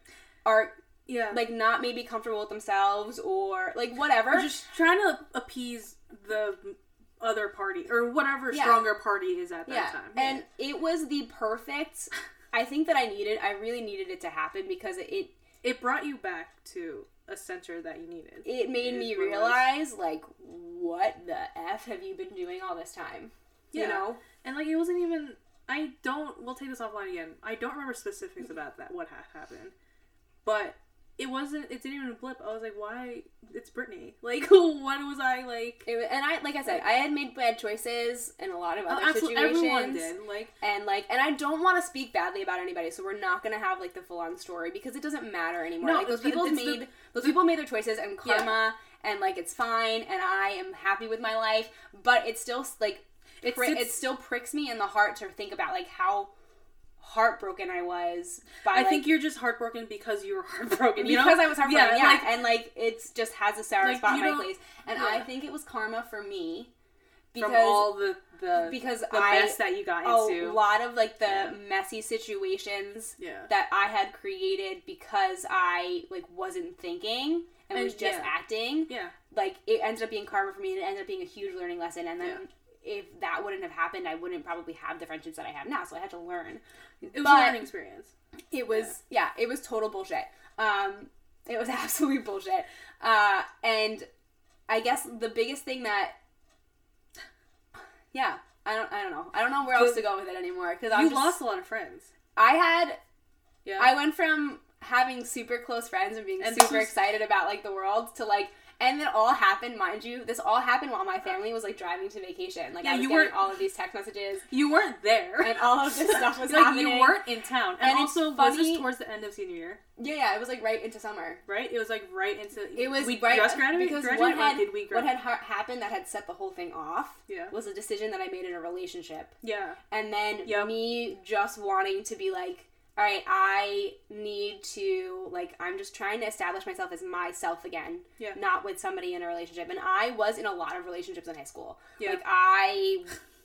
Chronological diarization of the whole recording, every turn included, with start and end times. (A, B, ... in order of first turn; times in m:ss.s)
0:00.4-0:00.8 A
0:01.1-0:01.5 B
0:01.3-0:04.5 A
0:04.3-0:10.4 B
0:08.5-0:08.9 A
0:09.6-0:15.3 A
0:15.6-0:19.7 B
0:18.4-0:24.2 A
0:23.7-0:29.7 B
0:30.4-0:35.9 B
0:35.8-0:56.3 A
0:38.8-0:40.5 B
0:45.8-0:47.4 B
0:48.2-0:48.6 B
0:53.4-0:54.0 B
0:57.0-0:59.1 A
0:58.7-1:02.3 B
1:01.0-1:06.7 A
1:03.8-1:05.3 B
1:07.3-1:08.0 A
1:07.4-1:10.7 B
1:08.6-1:27.6 A
1:11.2-1:11.6 B
1:13.2-1:13.5 B
1:17.7-1:19.1 B
1:27.0-1:28.1 B
1:28.5-1:34.1 A
1:34.7-1:36.2 A
1:38.1-1:41.4 A
1:39.7-1:40.0 B
1:40.9-1:42.1 B
1:42.4-1:43.0 A
1:43.6-1:44.0 B
1:43.8-1:54.5 A
1:46.4-1:46.9 B
1:52.8-1:53.4 B
1:54.5-1:59.8 B
1:55.4-1:57.2 A
1:57.8-1:58.9 A
2:00.0-2:01.4 A
2:01.4-2:05.1 B
2:02.8-2:09.3 A
2:07.3-2:07.5 B
2:09.4-2:09.8 B
2:09.9-2:23.1 A
2:10.4-2:11.0 B
2:22.0-2:22.2 B